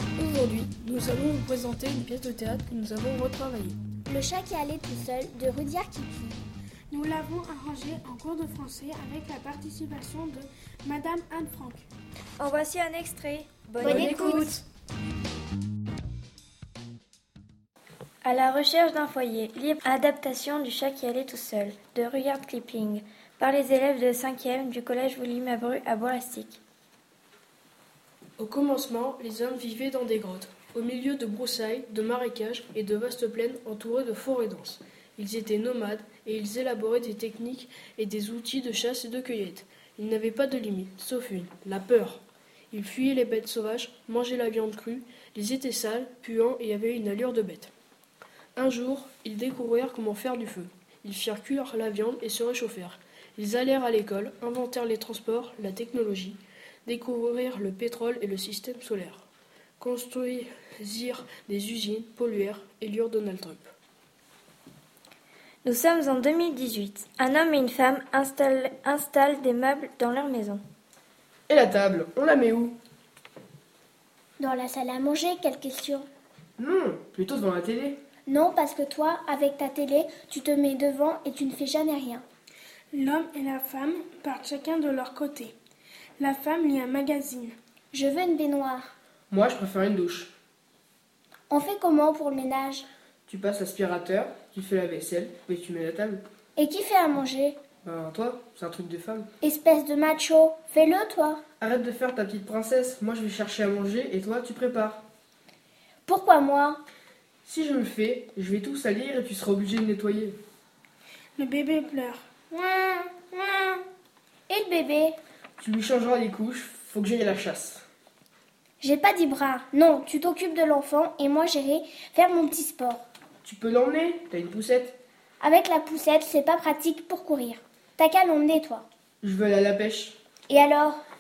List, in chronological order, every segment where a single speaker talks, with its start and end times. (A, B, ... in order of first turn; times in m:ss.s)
0:00.2-0:03.8 A
0:04.1-0:06.5 B
0:06.9-0:11.9 C
0:12.4-0:14.6 D
0:13.8-0:14.6 A
0:13.8-0:14.6 B
0:18.2-0:26.6 D
0:28.4-0:47.7 A
0:48.6-0:59.3 A
0:59.8-1:03.7 A
1:05.6-1:10.6 D
1:11.5-1:12.8 E
1:14.4-1:16.1 B
1:16.6-1:18.0 E
1:18.3-1:22.2 B
1:22.9-1:25.6 C
1:26.2-1:27.6 C
1:27.9-1:28.9 B
1:29.3-1:30.3 E
1:31.5-1:32.9 B
1:33.3-1:36.2 E
1:36.6-1:37.6 B
1:37.8-1:39.3 E
1:39.4-1:41.4 B
1:41.6-1:45.1 E
1:46.1-1:46.8 B
1:47.4-1:50.4 E
1:51.4-1:52.3 C
1:52.5-1:53.8 B
1:54.5-1:55.2 B
1:55.6-1:57.8 E
1:58.8-2:03.0 B
2:03.4-2:05.0 E
2:05.4-2:08.9 B
2:09.2-2:10.2 E
2:10.5-2:11.0 B